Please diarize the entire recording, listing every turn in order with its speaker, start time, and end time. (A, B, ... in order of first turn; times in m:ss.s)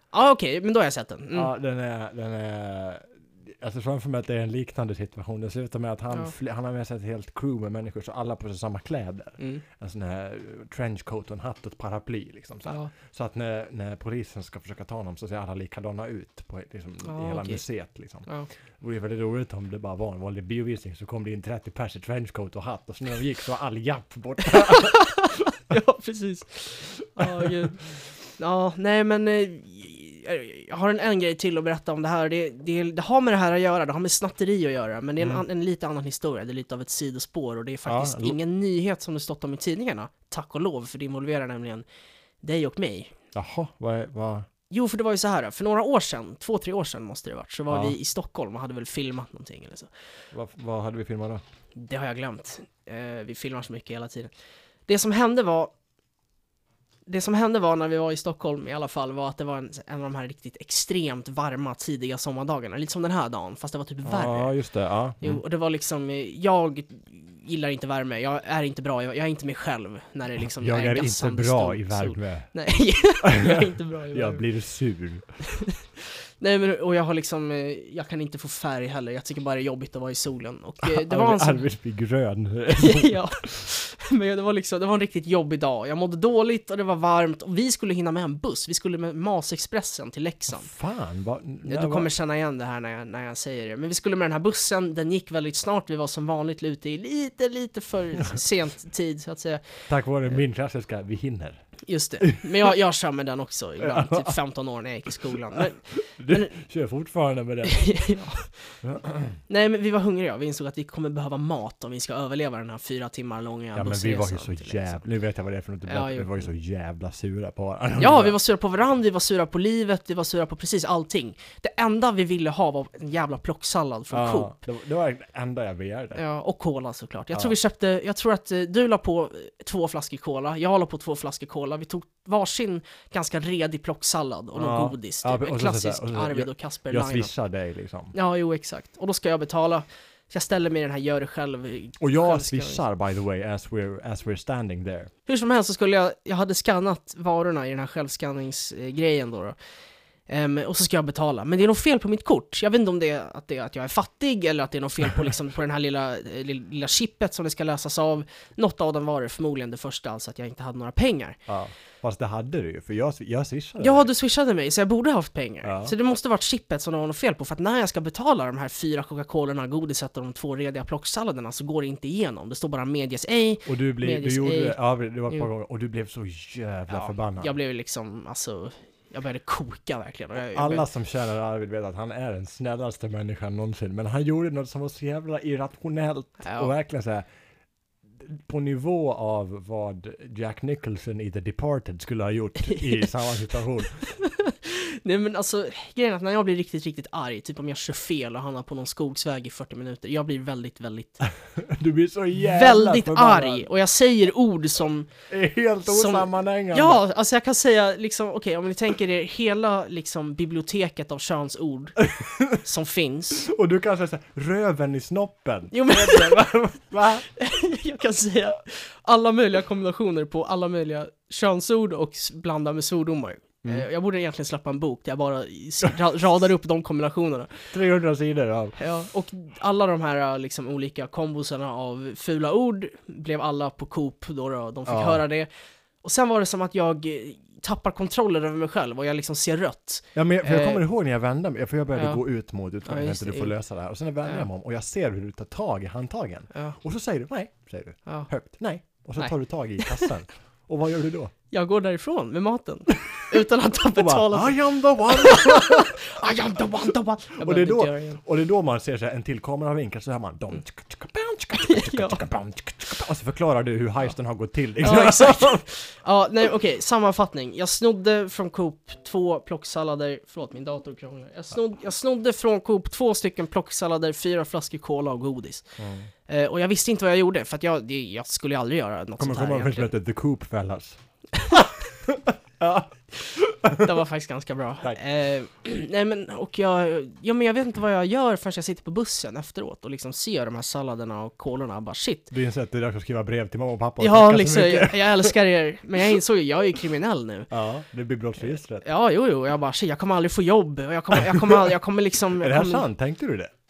0:00.1-0:01.5 A
0:01.3-0:18.3 B
0:09.4-0:09.6 A
0:12.6-0:12.9 A
0:17.0-0:17.6 A
0:18.8-0:25.3 B
0:24.4-0:27.8 A
0:27.2-0:27.7 B
0:28.4-0:41.8 A
0:37.8-0:38.4 B
0:42.4-0:43.1 A
0:43.3-0:44.5 B
0:44.7-0:49.9 A
0:47.7-0:48.0 B
0:50.3-0:51.4 B
0:51.7-0:54.3 A
0:54.9-0:55.7 A
0:57.1-1:04.5 A
1:04.0-1:05.4 B
1:05.2-1:14.4 A
1:10.4-1:12.5 B
1:13.2-1:15.2 B
1:15.5-1:21.6 A
1:20.8-1:23.2 B
1:22.8-1:30.7 A
1:30.5-1:32.1 B
1:31.6-1:39.6 A
1:39.9-1:41.6 B
1:41.8-1:46.5 A
1:42.2-1:42.7 B
1:43.8-1:44.4 B
1:45.5-1:47.8 B
1:47.6-1:48.5 A
1:48.8-1:49.4 B
1:49.5-1:55.0 A
1:53.7-1:58.4 B
1:55.8-1:56.4 A
1:58.0-2:04.6 A
2:04.1-2:06.2 B
2:06.1-2:17.3 A
2:14.5-2:18.1 B
2:18.1-2:22.8 A
2:22.0-2:25.1 B
2:25.2-2:29.6 A
2:30.3-2:41.4 A
2:41.5-2:44.0 B
2:43.8-2:54.8 A
2:45.6-2:45.9 B
2:53.6-2:57.5 B
2:56.9-3:00.9 A
3:00.4-3:07.2 B
3:06.4-3:06.7 A
3:08.2-3:14.1 B
3:12.6-3:13.0 A
3:14.1-3:21.3 A
3:21.5-3:23.7 B
3:22.4-3:25.1 A
3:25.3-3:27.0 B
3:25.9-3:33.5 A
3:32.0-3:32.6 B
3:33.4-3:37.2 B
3:35.7-3:36.5 A
3:37.3-3:47.7 A
3:47.7-3:48.8 B
3:48.8-3:55.5 A
3:54.9-3:55.2 B
3:56.0-4:00.8 A
4:00.1-4:11.3 B
4:01.9-4:02.2 A
4:02.8-4:03.5 A
4:11.5-4:14.6 A
4:13.9-4:16.7 B
4:15.1-4:18.2 A
4:17.4-4:25.6 B
4:21.5-4:22.2 A
4:24.8-4:35.7 A
4:35.8-4:36.1 B
4:36.3-4:39.9 A
4:39.2-4:41.0 B
4:41.4-4:41.6 A
4:41.5-4:44.0 B
4:43.8-4:52.3 A
4:52.3-4:55.4 B
4:54.0-4:57.5 A
4:57.5-4:58.8 B
4:58.8-5:02.9 A
5:01.1-5:01.7 B
5:02.3-5:03.5 B